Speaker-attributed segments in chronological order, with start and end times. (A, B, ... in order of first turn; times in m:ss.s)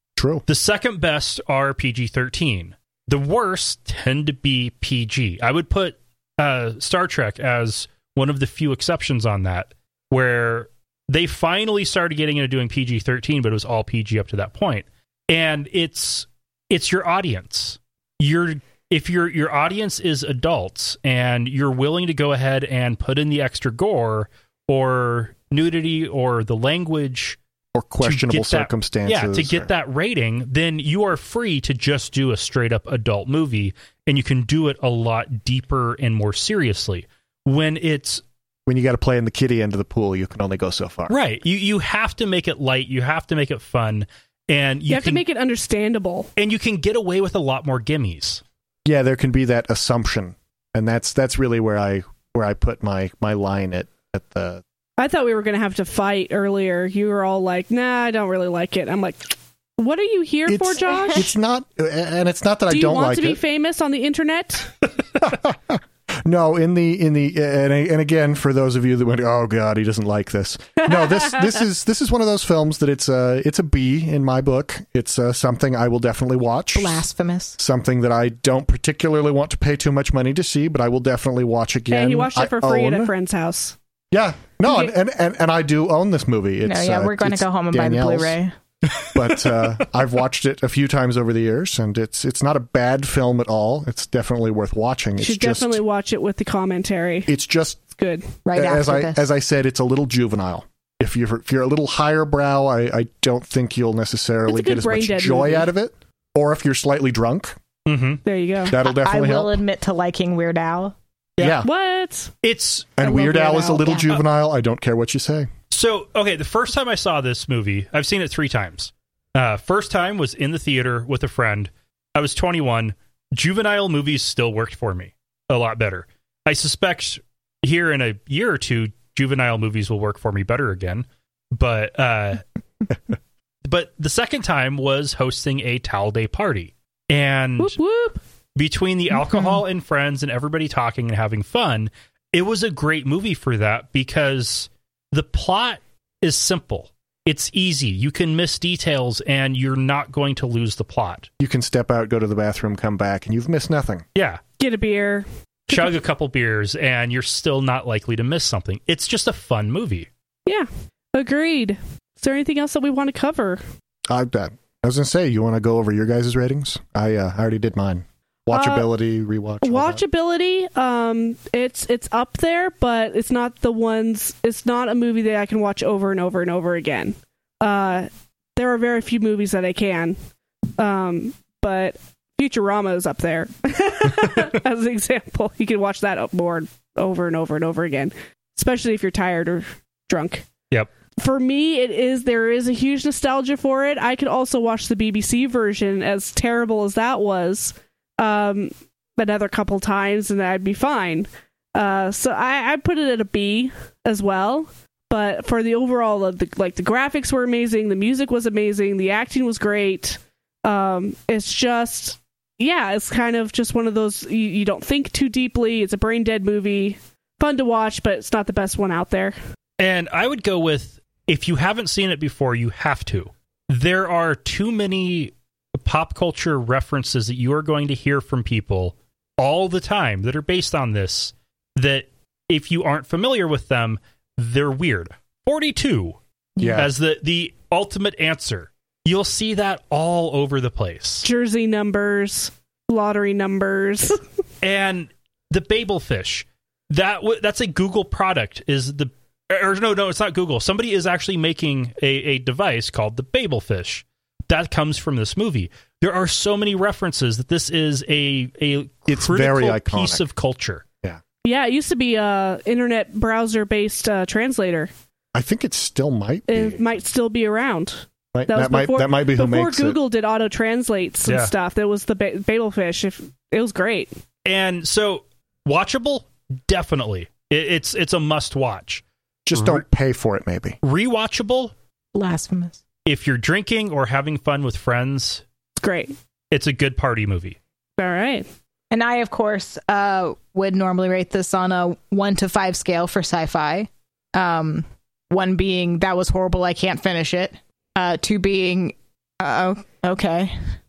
0:00.2-0:00.4 A
0:00.5-0:27.4 B
0:27.7-0:29.7 A
0:28.0-0:38.2 B
0:38.7-0:41.2 A
0:41.1-0:45.2 B
0:44.9-0:46.3 C
0:46.4-0:48.4 B
0:48.9-0:54.6 A
0:55.0-1:01.3 C
1:00.5-1:03.4 A
1:02.7-1:04.7 C
1:05.2-1:17.0 A
1:16.8-1:17.6 D
1:17.6-1:23.1 A
1:21.9-1:23.8 C
1:24.1-1:28.4 A
1:24.6-1:24.9 C
1:26.6-1:28.5 D
1:28.9-1:29.6 B
1:29.1-1:35.8 A
1:35.2-1:37.3 C
1:37.3-1:37.8 A
1:38.0-1:38.3 C
1:38.5-1:39.2 D
1:38.6-1:47.6 A
1:44.5-1:45.7 C
1:47.9-1:48.2 B
1:48.2-1:48.8 C
1:48.6-1:49.5 A
1:48.8-1:51.0 D
1:51.4-1:51.7 A
1:51.6-1:52.3 C
1:52.4-1:52.9 B
1:53.0-1:55.5 A
1:53.0-1:54.0 C
1:53.6-1:54.0 D
1:55.7-2:12.4 B
2:13.6-2:17.8 B
2:17.6-2:18.2 C
2:18.6-2:31.3 B
2:31.4-2:34.1 A
2:34.2-2:34.4 B
2:34.6-2:36.0 C
2:35.7-2:40.1 B
2:40.5-2:43.6 C
2:44.1-2:50.0 A
2:48.5-2:48.9 C
2:49.6-3:00.2 C
3:00.8-3:10.5 C
3:11.2-3:39.4 C
3:39.8-3:56.2 B
3:56.6-3:56.9 D
3:56.6-3:56.9 A
3:56.8-4:01.3 B
4:01.2-4:04.2 C
4:04.6-4:20.8 B
4:19.1-4:20.2 A
4:21.4-4:24.9 C
4:25.3-4:26.8 A
4:26.5-4:34.1 C
4:28.3-4:30.0 A
4:31.3-4:31.5 B
4:34.4-4:39.0 B
4:39.5-4:40.8 A
4:39.6-4:39.8 B
4:40.8-4:41.7 B
4:42.1-4:42.8 D
4:43.1-4:45.4 B
4:45.8-4:46.1 C
4:46.5-4:47.6 B
4:48.0-4:48.5 C
4:48.9-5:00.6 D